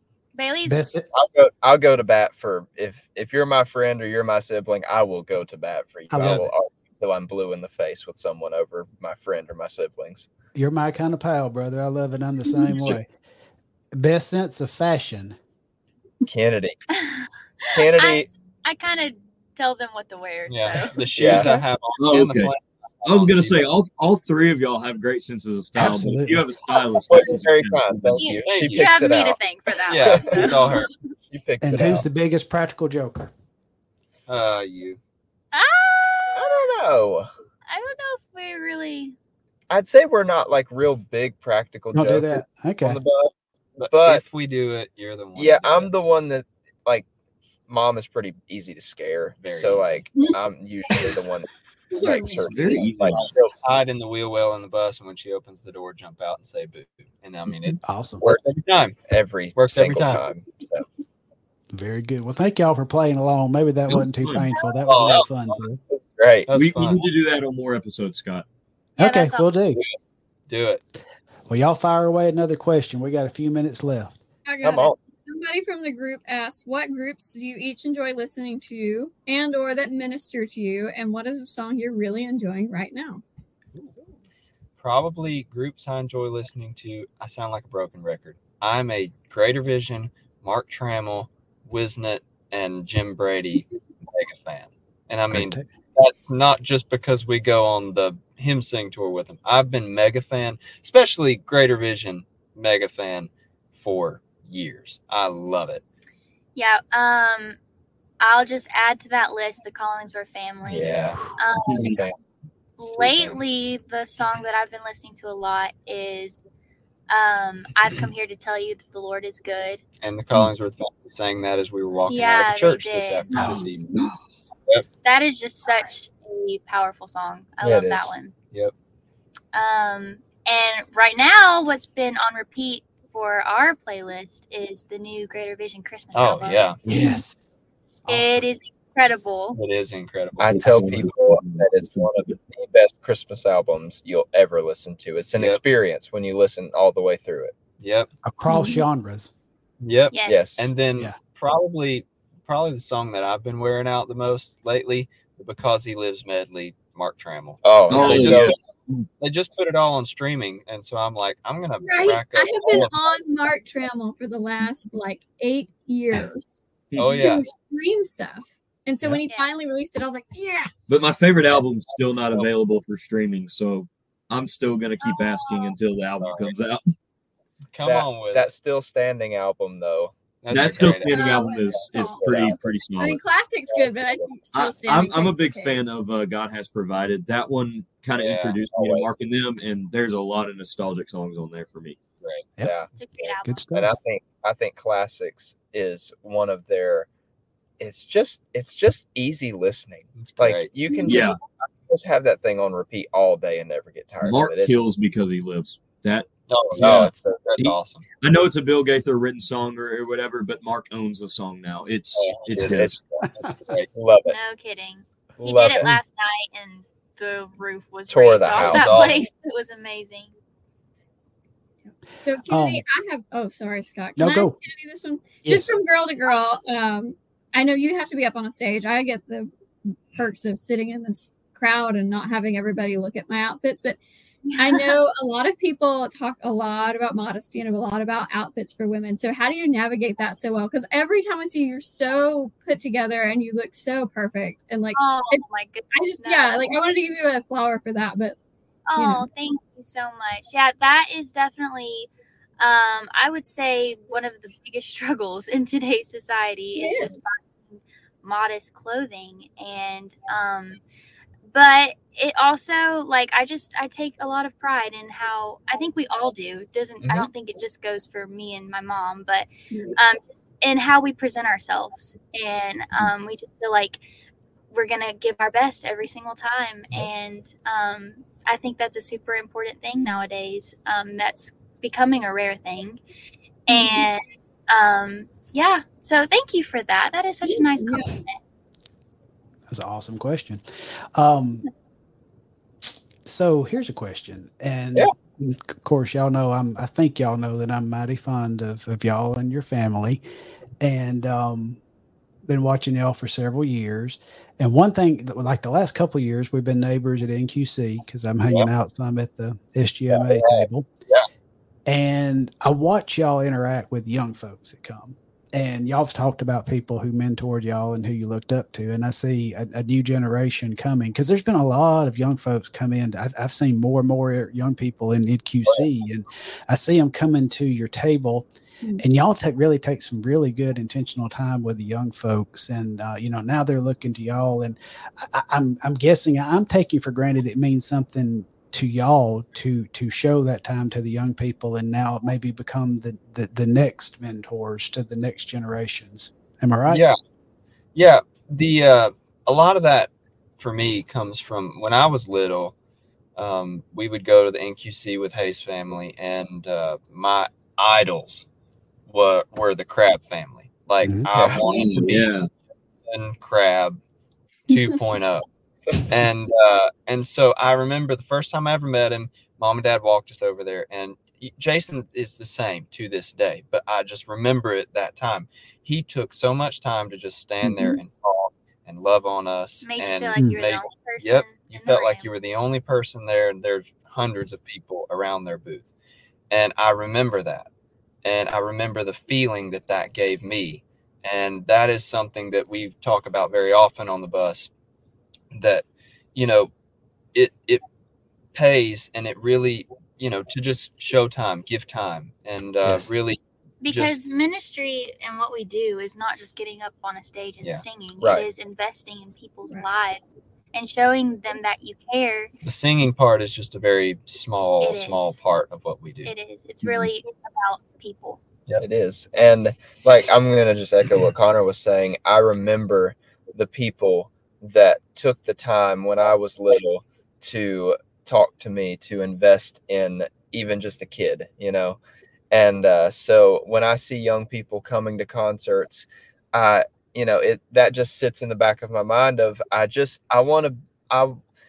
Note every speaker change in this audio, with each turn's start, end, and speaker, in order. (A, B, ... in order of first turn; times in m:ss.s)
0:00.3-0:00.9 A
0:00.6-0:01.1 B
0:01.1-0:10.3 C
0:06.1-0:06.5 B
0:10.5-0:13.1 B
0:12.7-0:13.0 D
0:13.9-0:15.4 B
0:16.3-0:16.8 C
0:16.9-0:21.0 A
0:17.7-0:18.3 C
0:20.5-0:23.7 E
0:21.2-0:21.6 C
0:22.0-0:28.3 D
0:25.7-0:26.4 B
0:27.0-0:29.4 C
0:28.2-0:30.9 A
0:28.4-0:28.9 E
0:29.9-0:30.9 E
0:29.9-0:32.0 C
0:31.6-0:33.3 B
0:34.3-0:35.0 E
0:35.5-0:36.7 A
0:36.3-0:37.3 C
0:37.7-0:39.2 A
0:39.7-0:43.3 C
0:41.9-0:43.0 B
0:43.8-0:45.9 E
0:43.9-0:44.2 C
0:45.3-0:47.0 C
0:47.7-0:53.5 C
0:49.4-0:50.1 E
0:51.9-0:52.8 F
0:52.5-0:53.3 D
0:53.6-0:59.0 E
0:57.8-0:58.2 B
0:59.1-1:00.8 C
0:59.6-1:00.2 E
1:01.7-1:05.8 B
1:03.9-1:04.5 D
1:04.8-1:05.7 E
1:05.9-1:06.5 C
1:06.5-1:07.0 E
1:06.5-1:08.4 D
1:09.0-1:09.8 B
1:09.0-1:09.5 A
1:10.5-1:10.8 E
1:11.5-1:14.1 B
1:14.4-1:23.2 F
1:14.6-1:15.0 C
1:24.8-1:45.8 E
1:35.3-1:35.7 B
1:46.6-1:47.6 A
1:48.2-1:52.0 A
1:50.7-1:51.2 E
1:50.7-1:51.1 C
1:51.6-1:52.0 D
1:52.8-1:56.5 A
1:52.9-1:53.4 E
1:57.1-1:59.8 A
2:00.0-2:04.1 E
2:02.1-2:03.4 A
2:03.3-2:03.6 B
2:03.4-2:03.6 D
2:05.0-2:08.3 A
2:07.6-2:08.1 C
2:09.5-2:16.7 A
2:16.1-2:16.8 E
2:16.8-2:17.4 B
2:16.9-2:17.2 F
2:18.0-2:18.4 B
2:18.1-2:19.6 A
2:19.5-2:21.2 E
2:20.4-2:27.5 C
2:20.6-2:22.0 D
2:27.8-2:28.1 E
2:28.2-2:29.3 B
2:28.5-2:28.8 F
2:29.8-2:38.6 E
2:30.1-2:30.5 A
2:30.2-2:30.7 C
2:37.6-2:38.6 C
2:37.9-2:39.1 D
2:39.2-2:42.9 E
2:41.8-2:51.1 F
2:46.9-2:47.2 D
2:47.0-2:47.4 E
2:47.1-2:47.4 C
2:50.9-2:56.9 D
2:55.1-2:55.7 A
2:56.2-2:56.6 E
2:57.7-2:58.5 E
2:57.8-3:01.2 C
3:00.4-3:01.2 E
3:00.5-3:03.2 D
3:01.1-3:02.2 F
3:01.7-3:02.6 C
3:02.2-3:02.5 E
3:03.0-3:05.8 F
3:03.7-3:04.2 C
3:04.5-3:12.0 D
3:08.2-3:08.5 E
3:08.2-3:09.2 C
3:12.2-3:12.5 E
3:12.6-3:17.1 C
3:12.9-3:13.6 A
3:13.4-3:13.9 B
3:17.8-3:24.8 C
3:20.2-3:20.7 E
3:21.0-3:21.4 D
3:24.2-3:33.0 D
3:26.5-3:28.0 E
3:26.8-3:27.5 C
3:32.2-3:34.4 C
3:32.3-3:32.7 E
3:33.4-3:33.9 E
3:34.2-3:40.3 A
3:35.4-3:35.9 C
3:38.1-3:39.1 C
3:38.5-3:39.2 E
3:41.9-3:54.0 F
3:42.5-3:42.8 B
3:44.2-3:44.5 B
3:45.4-3:45.7 B
3:54.4-3:54.9 A
3:54.6-4:08.4 F
4:04.9-4:06.8 A
4:08.9-4:20.8 A
4:09.0-4:09.3 F
4:16.7-4:17.3 F
4:21.5-4:34.0 A
4:29.7-4:30.0 F
4:34.7-4:43.0 A
4:43.7-4:48.4 A
4:43.7-4:44.1 F
4:47.4-4:48.1 F
4:49.7-4:50.6 B
4:51.1-4:51.6 B
4:53.2-5:00.2 B
5:00.8-5:01.8 B
5:02.4-5:10.9 B
5:10.1-5:11.2 C
5:11.8-5:28.4 B
5:29.0-5:47.0 B
5:46.9-5:47.2 E
5:47.9-5:52.7 E
5:53.4-5:58.4 E
5:59.1-6:02.3 E
6:01.0-6:01.3 B
6:01.3-6:01.6 C
6:01.4-6:02.5 D
6:03.0-6:04.0 E
6:04.7-6:05.4 E
6:06.0-6:25.9 E
6:17.6-6:18.0 F
6:19.8-6:22.3 A
6:26.5-6:27.7 E
6:28.2-6:34.7 E
6:35.5-6:36.7 E
6:37.3-6:37.8 E
6:38.5-6:44.2 E
6:43.8-6:52.5 A
6:48.2-6:48.4 C
6:52.6-6:56.3 E
6:54.8-6:55.4 A
6:56.2-6:58.4 A
6:58.8-7:12.0 C
7:12.5-7:21.4 C